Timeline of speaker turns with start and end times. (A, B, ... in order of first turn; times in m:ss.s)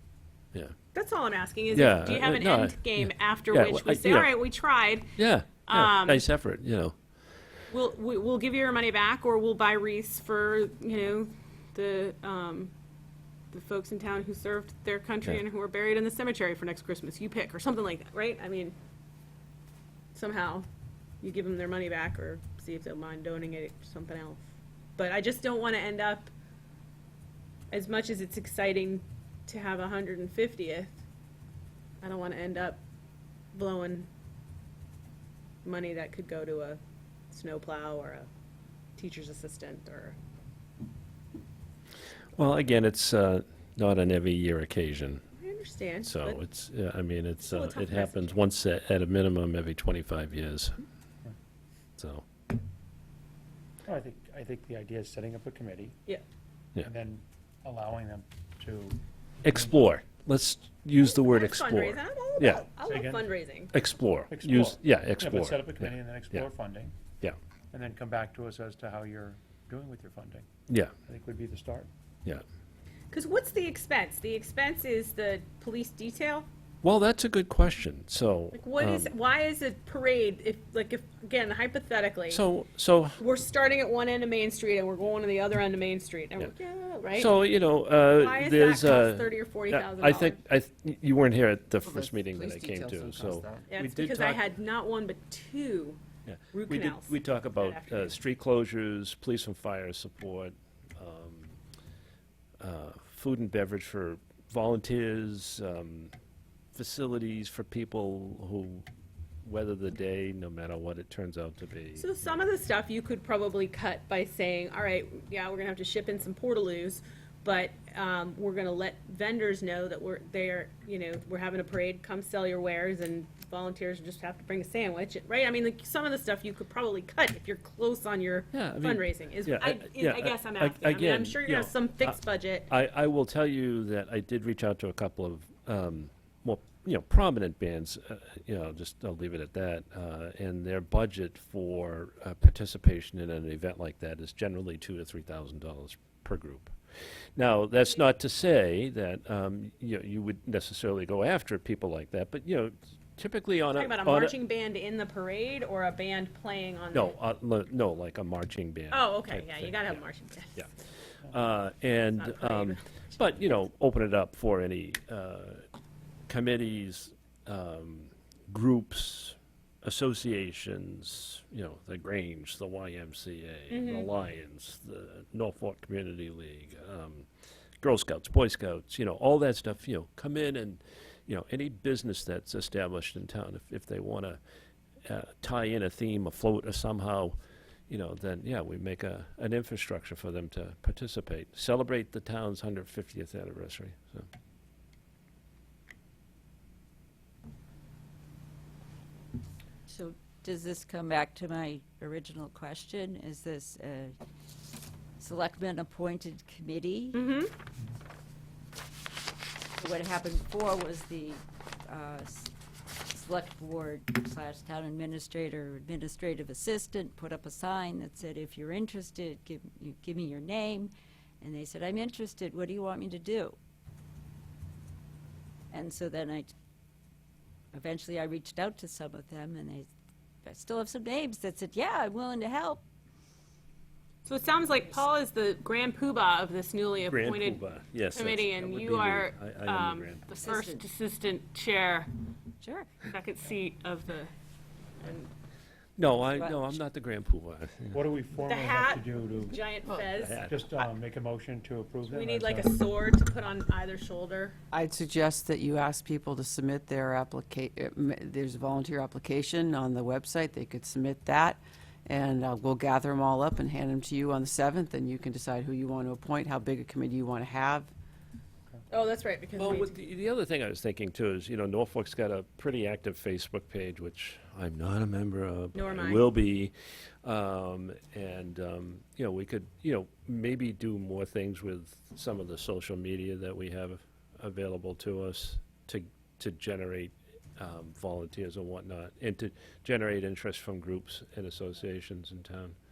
0:00.9-0:05.1 A
0:01.7-0:04.3 B
0:05.2-0:06.9 B
0:05.7-0:06.2 A
0:07.7-0:12.7 A
0:13.5-0:18.8 A
0:20.1-0:20.7 A
0:21.2-0:24.4 A
0:25.0-0:26.3 A
0:27.7-0:31.0 A
0:32.0-0:32.8 A
0:33.5-0:34.1 A
0:35.6-0:36.8 A
0:37.3-0:38.3 A
0:39.0-0:40.2 A
0:42.3-0:45.2 B
0:45.4-0:46.4 A
0:46.0-0:50.7 B
0:47.4-0:48.4 A
0:52.0-0:52.2 B
0:53.8-0:56.0 C
0:56.8-0:59.8 C
0:59.4-1:02.6 B
1:01.0-1:03.7 A
1:02.8-1:03.3 C
1:03.7-1:06.5 B
1:04.3-1:06.9 C
1:07.7-1:10.4 C
1:10.7-1:10.9 B
1:11.0-1:11.9 C
1:13.1-1:16.5 A
1:16.8-1:19.1 B
1:18.5-1:22.4 A
1:22.3-1:23.2 B
1:23.2-1:27.3 A
1:27.1-1:34.5 B
1:28.1-1:30.4 A
1:31.8-1:33.7 D
1:33.7-1:36.0 A
1:36.2-1:41.6 B
1:36.5-1:38.1 A
1:42.6-1:46.1 B
1:46.7-1:48.8 B
1:49.4-1:52.4 B
1:52.0-2:12.7 A
2:08.5-2:12.2 B
2:12.7-2:26.7 B
2:27.4-2:34.3 B
2:33.7-2:37.1 A
2:36.9-2:40.0 B
2:38.9-2:40.6 A
2:41.2-2:45.6 B
2:42.0-2:43.5 A
2:46.3-2:57.3 B
2:53.7-2:54.1 A
2:57.8-3:04.4 B
3:05.0-3:07.4 B
3:07.9-3:14.3 B
3:19.9-3:24.1 E
3:25.2-3:27.2 E
3:27.1-3:27.5 A
3:29.8-3:32.5 E
3:33.1-3:43.6 E
3:45.7-3:46.5 E
3:47.7-3:49.9 E
3:50.4-3:52.8 E
3:54.2-4:02.1 A
3:54.8-3:55.0 E
3:57.0-4:00.5 B
4:00.4-4:00.8 E
4:02.6-4:03.0 E
4:03.0-4:04.3 A
4:05.0-4:05.3 A
4:06.0-4:08.0 B
4:06.3-4:06.7 E
4:07.9-4:09.6 C
4:08.4-4:10.9 A
4:10.2-4:10.6 B
4:10.4-4:12.8 C
4:12.1-4:14.6 A
4:14.7-4:27.9 D
4:28.9-4:29.9 A
4:29.6-4:52.8 B
4:35.7-4:36.2 A